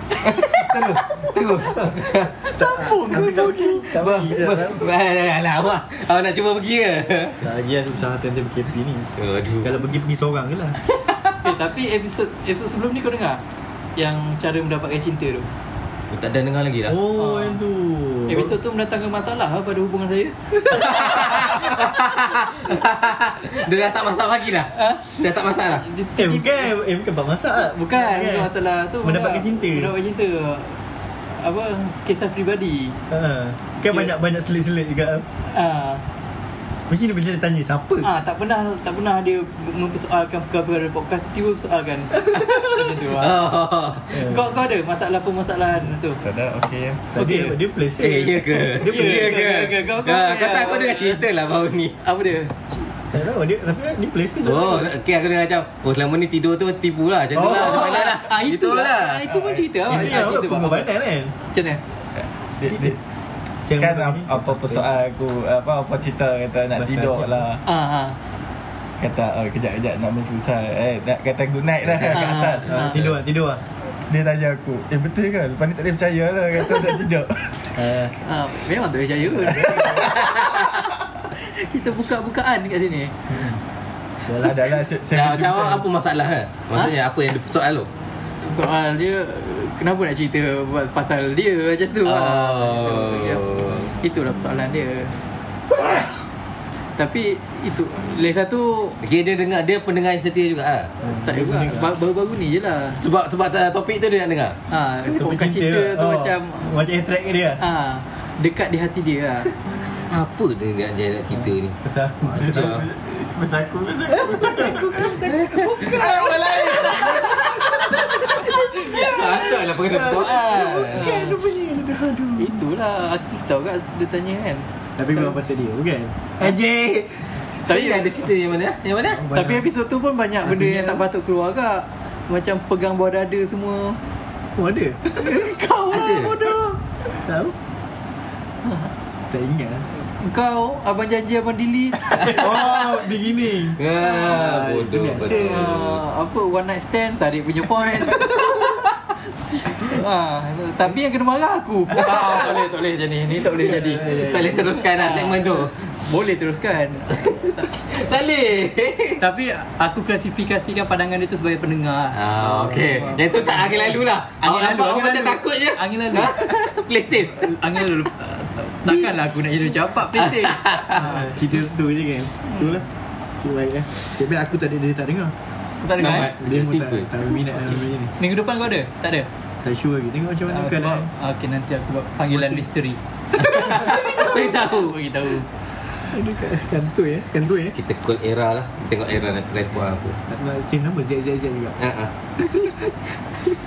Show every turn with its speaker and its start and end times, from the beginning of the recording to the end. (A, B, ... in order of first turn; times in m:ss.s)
0:00.2-0:02.3 A
0:02.5-0:04.9 B
0:02.6-0:03.9 C
0:03.9-0:07.4 A
0:07.4-0:09.1 B
0:09.2-0:09.7 A
0:09.6-0:10.8 B
0:11.4-0:13.4 C
0:14.0-0:15.5 C
0:16.1-0:17.0 A
0:16.9-0:18.6 B
0:17.2-0:17.6 C
0:18.3-0:21.3 C
0:20.8-0:25.9 A
0:20.8-0:21.6 B
0:24.7-0:25.1 C
0:25.8-0:26.7 C
0:26.2-0:28.5 B
0:27.6-0:30.8 C
0:29.0-0:29.9 B
0:31.4-0:33.0 C
0:33.1-0:35.3 B
0:35.5-0:36.0 C
0:36.9-0:38.1 B
0:38.0-0:43.4 C
0:43.1-0:44.1 A
0:44.1-0:46.2 C
0:46.2-0:49.6 B
0:47.2-0:47.6 C
0:48.0-0:52.0 A
0:48.8-0:51.3 C
0:52.0-0:52.9 C
0:53.1-0:54.9 B
0:54.4-0:59.2 A
0:57.3-0:58.0 B
0:57.4-1:00.9 C
0:59.3-0:59.7 D
0:59.9-1:01.3 B
1:01.5-1:01.8 C
1:02.6-1:03.0 D
1:02.7-1:03.0 B
1:03.7-1:04.9 B
1:03.8-1:07.6 D
1:06.8-1:07.4 B
1:07.7-1:08.2 C
1:09.0-1:13.1 D
1:12.1-1:13.0 C
1:12.7-1:13.6 B
1:14.1-1:17.6 D
1:17.7-1:18.2 B
1:18.2-1:23.1 C
1:19.5-1:20.0 B
1:24.3-1:24.6 B
1:24.3-1:25.9 D
1:25.1-1:27.9 A
1:28.4-1:35.2 C
1:32.0-1:33.9 A
1:37.0-1:39.0 C
1:39.0-1:40.9 A
1:41.0-1:41.9 B
1:41.2-1:43.0 C
1:43.0-1:44.6 A
1:44.7-1:46.7 C
1:45.1-1:47.6 B
1:47.6-1:49.6 C
1:50.1-1:52.8 A
1:51.4-1:52.8 B
1:52.4-1:58.0 D
1:54.1-2:02.6 B
1:58.5-2:01.3 A
2:00.8-2:01.4 C
2:02.4-2:05.4 C
2:05.0-2:07.4 B
2:07.7-2:08.3 C
2:07.7-2:09.3 A
2:09.1-2:09.6 B
2:09.3-2:14.0 C
2:10.4-2:11.0 B
2:14.6-2:15.5 B
2:15.2-2:16.8 C
2:15.9-2:16.4 A
2:17.1-2:17.6 B
2:18.6-2:18.9 C
2:19.3-2:19.9 B
2:20.0-2:22.9 C
2:22.2-2:25.8 B
2:23.8-2:26.0 A
2:25.3-2:28.8 C
2:29.6-2:37.7 C
2:33.6-2:34.6 B
2:34.0-2:35.8 A
2:37.7-2:39.2 A
2:39.2-2:42.2 C
2:42.1-2:47.6 A
2:42.4-2:43.2 B
2:42.9-2:51.3 C
2:50.2-2:51.0 A
2:50.9-2:52.9 B
2:53.4-2:55.3 B
2:55.8-2:56.3 C
2:55.9-2:57.1 A
2:56.3-2:58.1 B
2:58.2-2:59.3 C
2:59.6-3:01.1 B
3:00.5-3:05.5 C
3:02.3-3:02.6 B
3:03.4-3:05.0 A
3:06.0-3:07.8 B
3:07.8-3:10.2 A
3:10.3-3:11.8 B
3:11.8-3:12.1 A
3:12.5-3:12.7 B